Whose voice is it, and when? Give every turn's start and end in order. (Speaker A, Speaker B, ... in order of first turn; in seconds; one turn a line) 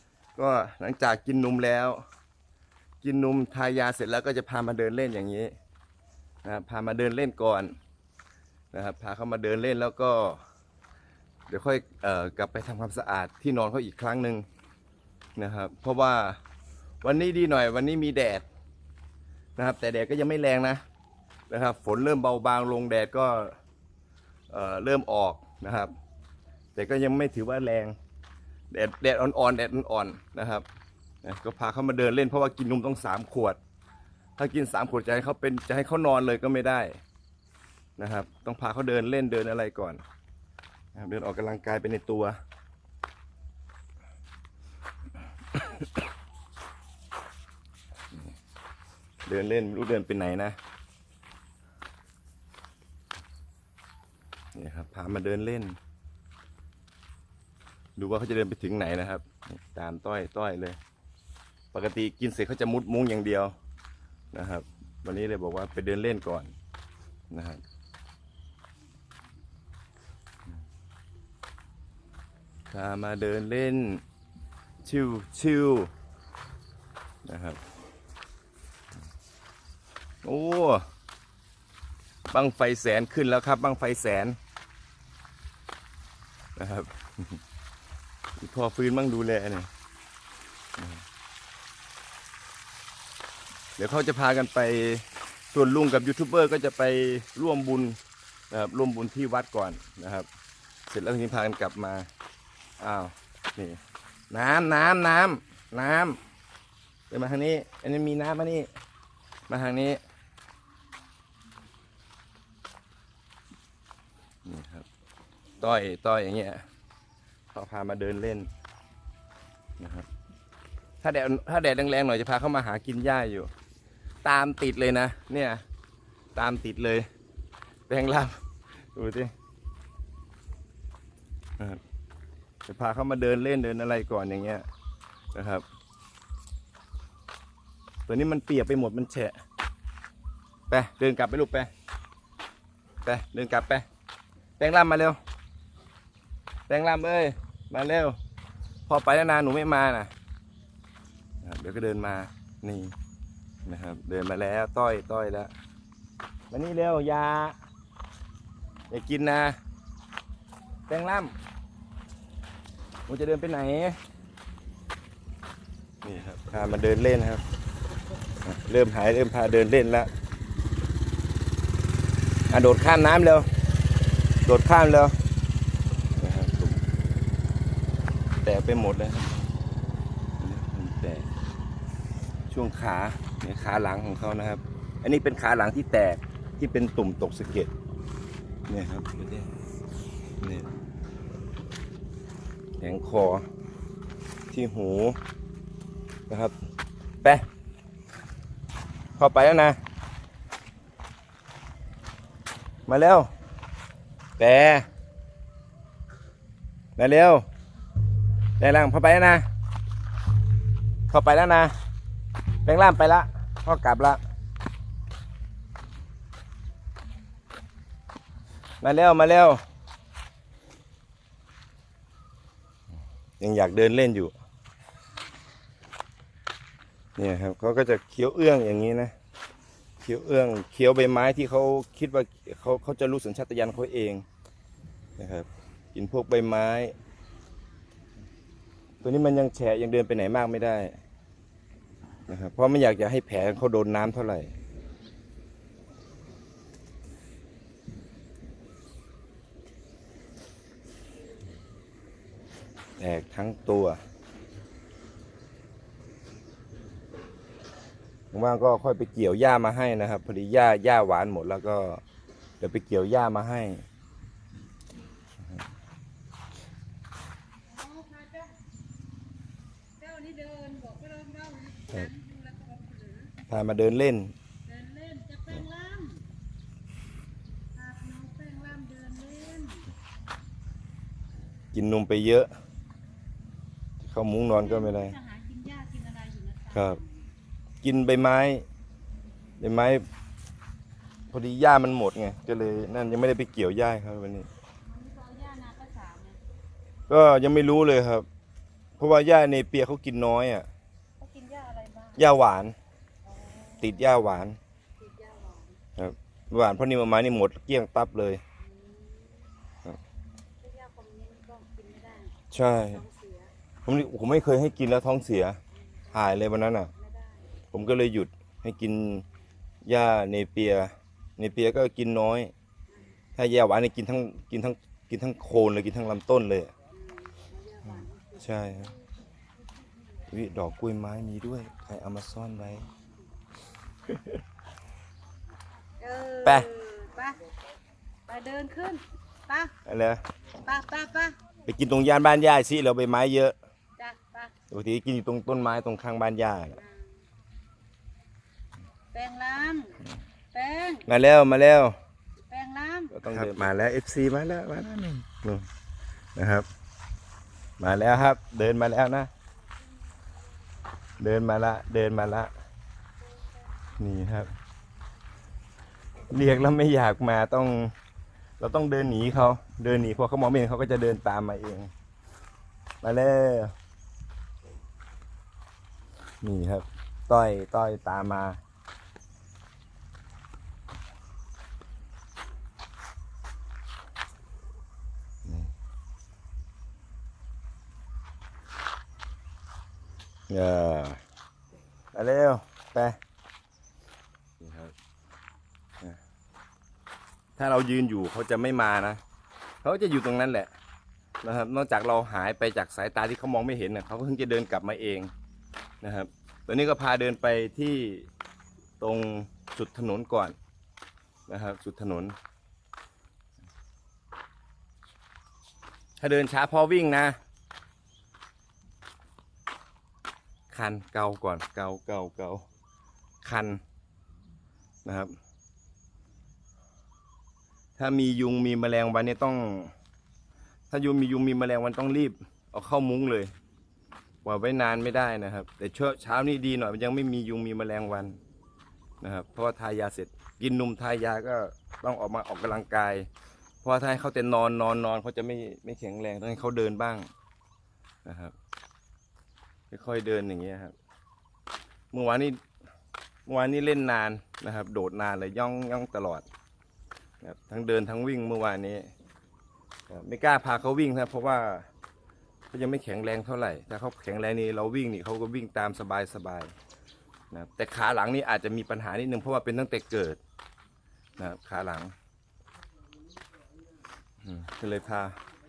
Speaker A: 0.4-2.0
Speaker A: 3.0-5.5
Speaker A: 6.4-7.8
Speaker A: 8.7-10.4
Speaker A: 11.5-14.5
Speaker A: 15.4-16.4
Speaker A: 17.0-18.4
Speaker A: 19.6-20.8
Speaker A: 21.5-23.6
Speaker A: 24.5-25.9
Speaker A: 26.8-27.9
Speaker A: 28.7-30.6
Speaker A: 31.2-33.6
Speaker A: 34.4-37.0
Speaker A: 38.0-40.0
Speaker A: 41.0-42.4
Speaker A: 49.3-50.6
Speaker A: 54.5-55.8
Speaker A: 58.0-60.8
Speaker A: 61.7-63.5
Speaker A: 64.3-66.5
Speaker A: 67.3-67.6
Speaker A: 72.7-74.0
Speaker A: 74.8-75.9
Speaker A: 77.2-77.6
Speaker A: 80.2-80.8
Speaker A: 82.3-84.4
Speaker A: 86.6-87.4
Speaker A: 88.4-89.7
Speaker A: 90.8-91.0
Speaker A: 93.8-98.0
Speaker A: 98.5-100.3
Speaker A: 100.9-102.1
Speaker A: 102.8-103.8
Speaker A: 104.3-106.2
Speaker A: 107.1-108.7
Speaker A: 109.5-110.0
Speaker A: 114.5-114.9
Speaker A: 115.6-116.6
Speaker A: 117.5-118.5
Speaker A: 119.8-120.1
Speaker A: 121.0-123.5
Speaker A: 124.2-125.6
Speaker A: 126.3-127.1
Speaker A: 127.9-129.3
Speaker A: 132.7-134.7
Speaker A: 135.3-135.7
Speaker A: 138.1-139.4
Speaker A: 140.7-141.7
Speaker A: 143.1-143.9
Speaker A: 144.6-145.2
Speaker A: 146.7-148.2
Speaker A: 148.9-150.1
Speaker A: 151.4-152.9
Speaker A: 153.7-155.5
Speaker A: 156.5-157.6
Speaker A: 158.9-159.6
Speaker A: 160.9-161.3
Speaker A: 163.1-164.0
Speaker A: 166.0-167.4
Speaker A: 168.4-170.1
Speaker A: 172.5-173.5
Speaker A: 174.5-175.2
Speaker A: 176.2-176.8
Speaker A: 178.4-179.5
Speaker A: 180.4-181.3
Speaker A: 182.5-187.7
Speaker A: 188.7-189.5
Speaker A: 190.4-190.7
Speaker A: 192.8-193.5
Speaker A: 194.5-195.2
Speaker A: 196.3-196.6
Speaker A: 199.2-199.8
Speaker A: 202.9-203.3
Speaker A: 204.4-204.9
Speaker A: 207.0-207.5
Speaker A: 208.6-209.4
Speaker A: 211.1-211.7
Speaker A: 212.7-214.2
Speaker A: 218.8-219.6
Speaker A: 223.4-224.3
Speaker A: 227.2-229.1
Speaker A: 230.0-234.3
Speaker A: 235.2-236.9
Speaker A: 239.0-241.0
Speaker A: 242.3-244.5
Speaker A: 253.0-254.0
Speaker A: 258.3-262.0
Speaker A: 262.6-263.8
Speaker B: 267.6-268.6
Speaker B: 270.0-273.4
Speaker A: 273.5-274.3
Speaker B: 274.7-276.2
Speaker B: 277.8-279.9
Speaker A: 281.7-282.5
Speaker A: 284.0-285.2
Speaker B: 284.6-287.1
Speaker A: 286.7-287.0
Speaker A: 287.8-288.7
Speaker A: 289.6-290.1
Speaker A: 291.3-294.5
Speaker B: 294.9-296.4
Speaker A: 297.1-298.3
Speaker A: 299.0-300.7
Speaker B: 301.2-302.2
Speaker A: 302.2-302.8
Speaker B: 303.3-304.0
Speaker A: 303.8-304.6
Speaker B: 305.0-305.8
Speaker A: 306.0-308.4
Speaker B: 308.6-309.5
Speaker B: 310.6-313.5
Speaker A: 312.5-313.0
Speaker A: 313.9-315.6
Speaker A: 316.1-316.9
Speaker B: 317.0-317.5
Speaker A: 317.7-319.2
Speaker A: 319.9-322.5
Speaker A: 323.4-326.7
Speaker B: 326.9-328.4
Speaker A: 327.9-328.9
Speaker A: 330.3-332.9
Speaker B: 336.0-337.4
Speaker B: 338.3-339.7
Speaker A: 339.9-340.2
Speaker B: 340.6-341.4
Speaker A: 341.7-343.6
Speaker B: 344.0-344.5
Speaker A: 344.7-346.8
Speaker B: 346.8-347.1
Speaker B: 349.1-350.0
Speaker B: 350.5-351.1
Speaker A: 351.1-352.0
Speaker B: 352.5-353.1
Speaker A: 353.1-355.7
Speaker A: 356.4-356.7
Speaker A: 357.8-359.3
Speaker A: 361.2-362.5
Speaker A: 364.0-364.5
Speaker A: 366.3-367.9
Speaker A: 368.6-371.9
Speaker A: 373.0-373.7
Speaker A: 376.4-378.6
Speaker A: 385.4-385.7
Speaker A: 390.5-391.2
Speaker A: 392.1-393.2
Speaker A: 394.6-394.9
Speaker A: 397.6-399.2
Speaker A: 399.8-400.7
Speaker A: 401.4-405.3
Speaker A: 406.0-408.3
Speaker A: 409.0-410.6
Speaker A: 411.5-412.4
Speaker A: 416.2-417.4
Speaker A: 420.7-422.6
Speaker A: 423.4-423.8
Speaker A: 425.1-425.3
Speaker A: 428.0-429.9
Speaker A: 430.9-433.5
Speaker A: 434.4-438.4
Speaker A: 439.2-443.3
Speaker A: 443.8-447.3
Speaker A: 448.2-448.6
Speaker A: 449.9-450.9
Speaker A: 452.1-452.6
Speaker A: 453.5-456.4
Speaker A: 457.4-459.1
Speaker A: 460.1-461.9
Speaker A: 462.7-466.7
Speaker A: 467.5-470.4
Speaker A: 471.4-472.1
Speaker A: 474.4-475.4